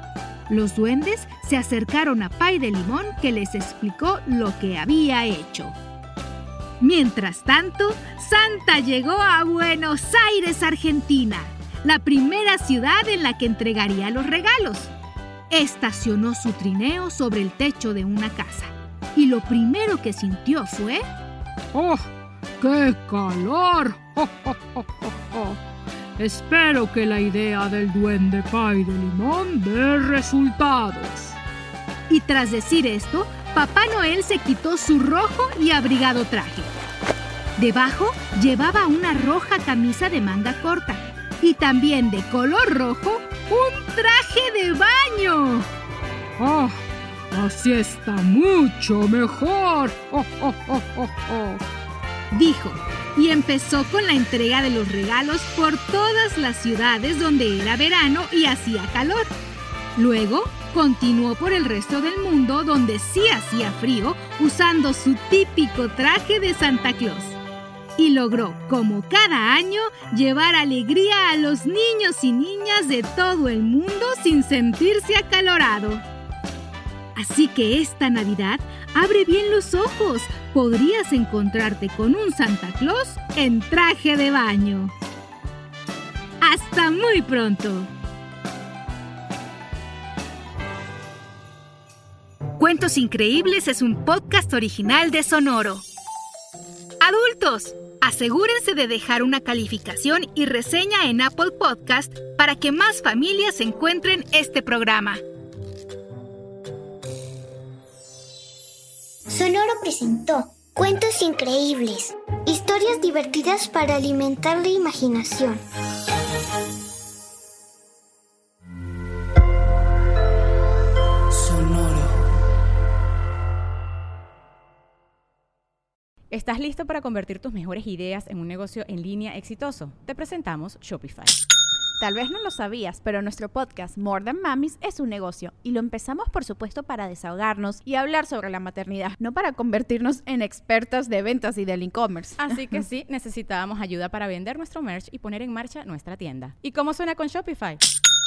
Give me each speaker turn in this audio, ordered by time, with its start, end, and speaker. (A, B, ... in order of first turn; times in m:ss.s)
0:00.5-0:05.8 A
0:06.8-0:14.9 A
0:15.5-0:21.1 A
0:21.7-0:22.1 B
0:22.6-0:25.6 B
0:26.2-0:31.4 B
0:32.1-0:36.7 A
0:37.6-0:45.7 A
0:46.4-0:46.7 A
0:47.3-0:50.8 A
0:47.6-0:48.3 B
0:49.6-0:51.6 B
0:51.3-0:51.5 A
0:52.3-0:59.3 A
1:00.0-1:07.4 A
1:08.0-1:16.0 A
1:17.2-1:24.9 A
1:26.4-1:27.9 A
1:32.6-1:35.8 A
1:37.0-1:45.2 A
1:49.3-1:55.6 C
2:06.3-2:11.4 D
2:12.0-2:22.5 E
2:22.4-2:27.8 D